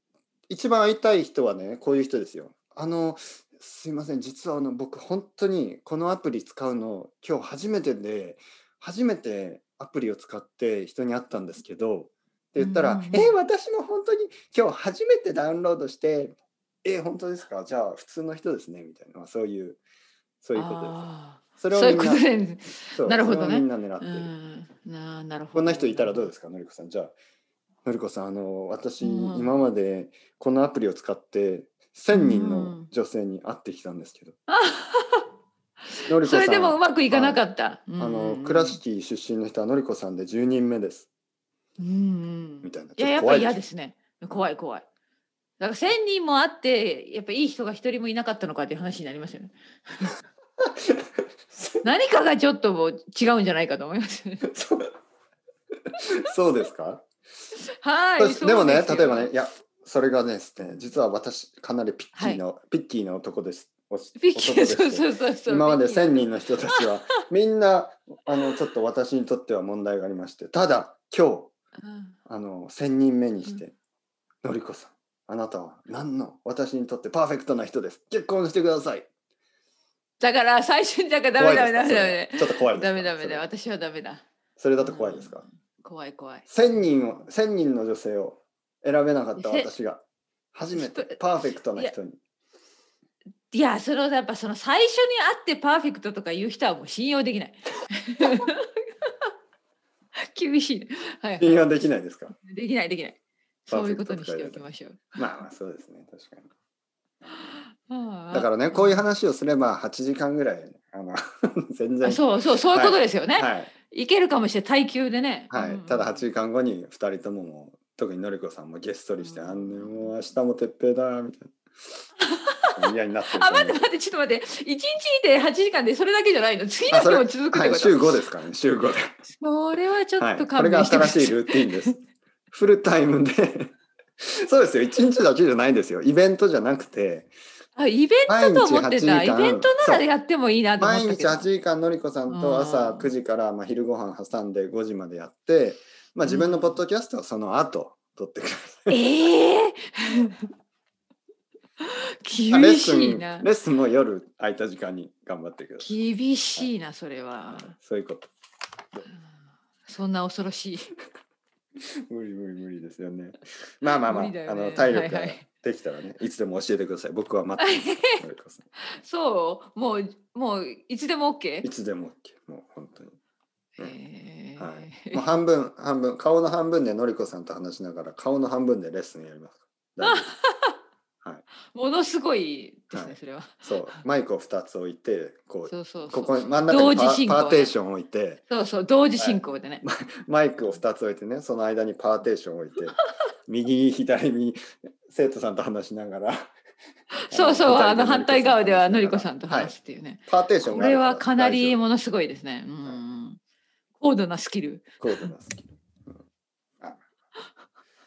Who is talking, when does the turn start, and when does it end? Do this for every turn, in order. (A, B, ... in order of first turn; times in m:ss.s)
0:00.5-0:19.8 A
0:12.6-0:13.4 B
0:20.4-0:21.0 A
0:20.6-0:26.3 B
0:21.6-0:22.2 A
0:22.9-0:24.3 A
0:25.6-0:27.1 A
0:27.8-0:34.4 A
0:29.0-0:29.7 B
0:32.1-0:32.9 B
0:34.5-0:35.3 B
0:36.0-0:38.8 B
0:36.1-0:37.4 A
0:38.0-0:41.1 A
0:41.8-0:44.8 B
0:42.6-0:43.6 A
0:45.6-0:50.1 B
0:51.5-0:51.8 A
0:51.8-0:54.4 B
0:54.4-0:54.9 A
0:55.9-0:57.0 A
0:57.6-0:59.3 B
0:58.2-1:11.5 A
1:02.2-1:02.4 B
1:04.2-1:06.8 B
1:11.8-1:12.1 B
1:12.3-1:13.7 A
1:14.4-1:19.1 A
1:20.2-1:24.2 B
1:21.4-1:23.5 A
1:24.6-1:25.4 A
1:24.8-1:27.2 B
1:26.5-1:30.0 A
1:29.4-1:29.7 B
1:30.5-1:32.2 A
1:30.8-1:31.9 B
1:33.5-1:39.3 B
1:40.2-1:41.6 B
1:41.4-1:42.3 A
1:42.4-1:45.2 B
1:43.7-1:46.5 A
1:47.3-1:49.0 B
1:48.3-1:53.7 A
1:52.0-1:56.3 B
1:55.5-2:01.5 A
1:59.2-2:00.1 B
2:02.2-2:02.8 B
2:02.8-2:03.8 A
2:03.4-2:08.2 B
2:06.9-2:09.2 A
2:09.4-2:11.9 B
2:10.2-2:17.3 A
2:17.8-2:21.5 B
2:18.3-2:20.0 A
2:20.8-2:29.2 A
2:22.3-2:23.1 B
2:26.3-2:26.8 B
2:28.9-2:30.4 B
2:31.8-2:33.5 B
2:32.5-2:35.9 A
2:35.8-2:37.8 B
2:37.5-2:38.3 A
2:39.8-2:40.9 B
2:42.1-2:48.6 A
2:43.9-2:45.4 B
2:47.6-2:48.2 B
2:48.9-2:51.7 B
2:51.6-2:53.2 A
2:53.8-2:55.2 B
2:54.6-3:00.4 A
3:00.0-3:00.8 B
3:01.7-3:04.0 B
3:02.9-3:08.4 A
3:05.7-3:07.7 B
3:08.5-3:09.8 B
3:09.2-3:16.5 A
3:17.3-3:23.4 B
3:17.3-3:19.7 A
3:20.3-3:21.8 A
3:24.0-3:25.2 B
3:25.0-3:26.2 A